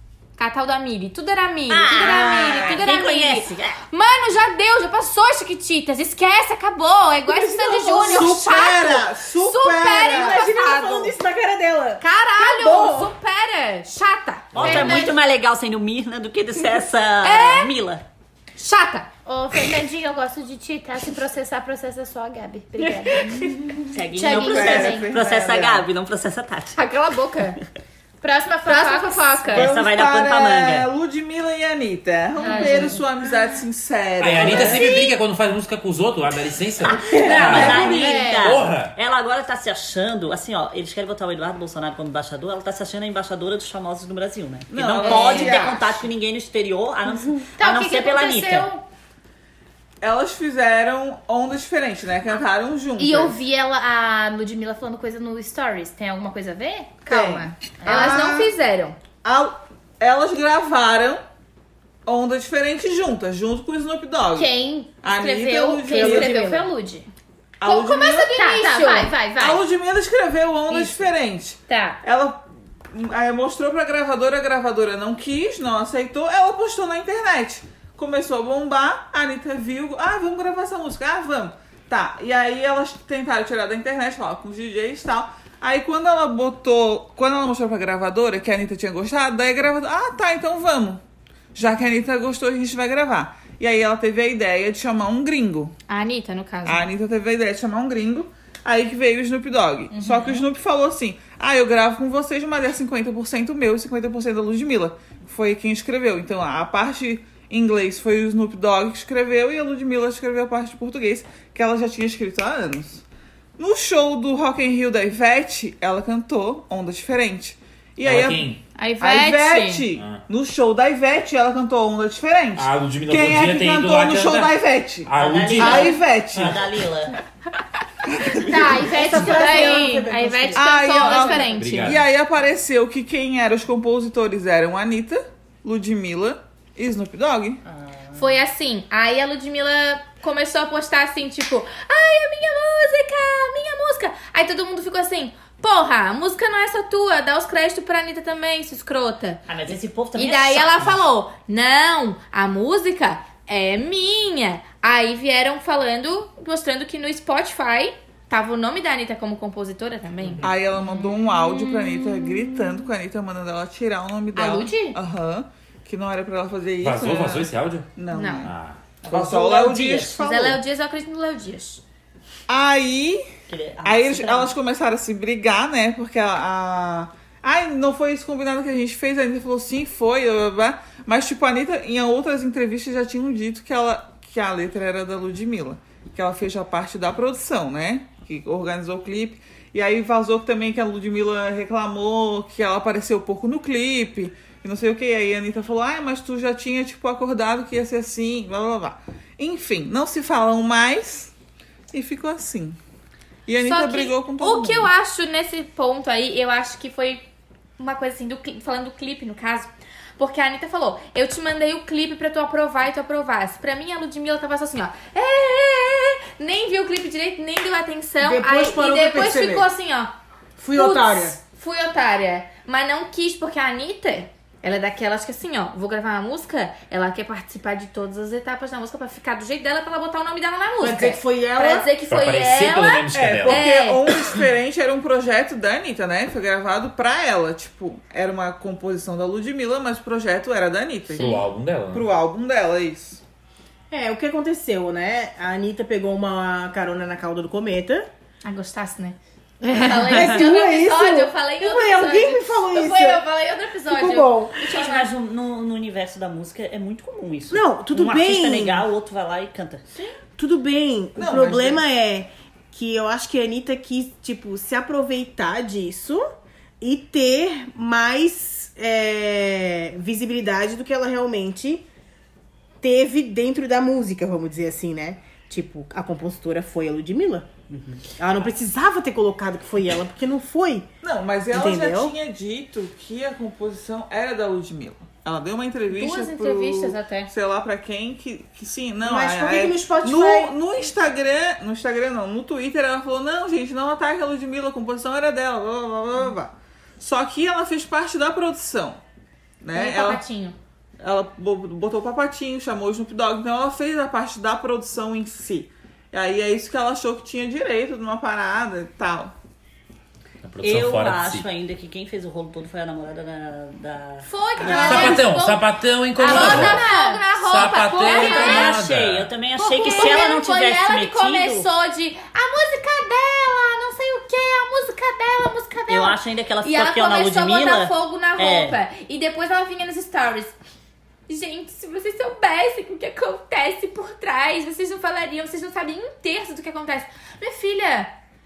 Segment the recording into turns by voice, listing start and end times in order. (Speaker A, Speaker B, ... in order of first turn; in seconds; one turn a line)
Speaker A: 0.4-11.2
Speaker B: 1.7-2.8
Speaker C: 1.7-3.8
Speaker D: 7.3-13.1
Speaker E: 10.0-10.4
Speaker A: 12.0-15.1
Speaker F: 14.5-15.1
Speaker C: 14.6-18.0
Speaker A: 17.2-17.7
Speaker A: 18.6-19.1
Speaker B: 19.3-23.6
Speaker E: 23.7-25.9
Speaker C: 23.9-26.8
Speaker B: 24.1-25.1
Speaker A: 26.7-27.6
Speaker B: 28.2-29.6
Speaker A: 28.6-29.7
Speaker C: 29.5-30.9
Speaker E: 29.5-34.9
Speaker B: 32.4-33.0
Speaker A: 32.5-32.9
Speaker F: 34.2-39.0
Speaker B: 34.4-35.1
Speaker C: 36.9-48.7
Speaker D: 37.1-38.3
Speaker B: 37.1-38.6
Speaker E: 44.7-46.0
Speaker B: 45.0-45.6
Speaker B: 47.6-48.9
Speaker E: 50.0-53.4
Speaker B: 53.0-58.3
Speaker E: 57.1-58.5
Speaker A: 57.1-59.0
Speaker E: 59.2-61.2
Speaker E: 62.1-64.5
Speaker B: 64.3-67.1
Speaker E: 65.0-66.4
Speaker D: 65.9-66.7
Speaker E: 67.6-68.3
Speaker A: 67.7-69.2
Speaker B: 67.7-69.6
Speaker E: 69.3-91.0
Speaker B: 70.7-71.0
Speaker B: 71.7-72.0
Speaker E: 91.5-95.7
Speaker A: 95.9-96.9
Speaker E: 96.7-113.0
Speaker B: 99.9-100.4
Speaker E: 113.6-126.6
Speaker F: 118.0-118.6
Speaker A: 118.8-119.8
Speaker F: 120.0-120.3
Speaker F: 122.6-126.0
Speaker C: 125.2-127.2
Speaker E: 128.1-128.9
Speaker A: 128.3-132.0
Speaker B: 128.5-129.7
Speaker D: 128.8-131.4
Speaker E: 130.5-137.6
Speaker F: 131.5-132.1
Speaker A: 138.1-149.4
Speaker C: 149.5-150.9
Speaker A: 150.2-161.1
Speaker E: 160.4-170.6
Speaker B: 162.2-162.4
Speaker B: 164.4-164.9
Speaker A: 164.7-164.9
Speaker F: 166.8-169.0
Speaker A: 168.1-168.5
Speaker C: 169.1-170.2
Speaker A: 170.1-171.8
Speaker E: 172.5-173.2
Speaker C: 173.5-174.6
Speaker E: 173.8-201.3
Speaker E: 201.9-202.8
Speaker E: 203.5-204.9
Speaker A: 203.6-207.2
Speaker A: 207.8-220.1
Speaker D: 218.2-219.7
Speaker D: 220.6-221.4
Speaker A: 220.7-234.4
Speaker D: 230.8-231.9
Speaker F: 232.1-233.6
Speaker E: 233.1-241.4
Speaker F: 241.2-242.1
Speaker A: 241.2-241.4
Speaker E: 241.9-243.2
Speaker D: 243.9-248.1
Speaker A: 248.4-255.1
Speaker B: 249.6-250.4
Speaker D: 249.7-253.2
Speaker D: 253.9-254.6
Speaker C: 254.6-259.8
Speaker D: 257.5-258.9
Speaker D: 260.4-266.3
Speaker E: 261.1-261.8
Speaker D: 266.8-271.9
Speaker D: 272.8-277.5
Speaker C: 277.7-278.0
Speaker D: 278.2-280.9
Speaker E: 281.0-299.0
Speaker D: 281.5-282.1
Speaker A: 285.9-287.3
Speaker D: 289.0-290.5
Speaker E: 299.6-300.2
Speaker A: 299.7-300.6
Speaker E: 301.0-309.3
Speaker F: 310.4-311.5
Speaker C: 310.6-315.3
Speaker A: 314.2-318.8
Speaker F: 314.7-319.4
Speaker B: 314.7-315.2
Speaker B: 316.1-317.2
Speaker C: 318.0-321.7
Speaker A: 319.6-330.6
Speaker B: 319.9-320.3
Speaker C: 325.9-328.8
Speaker A: 331.3-338.1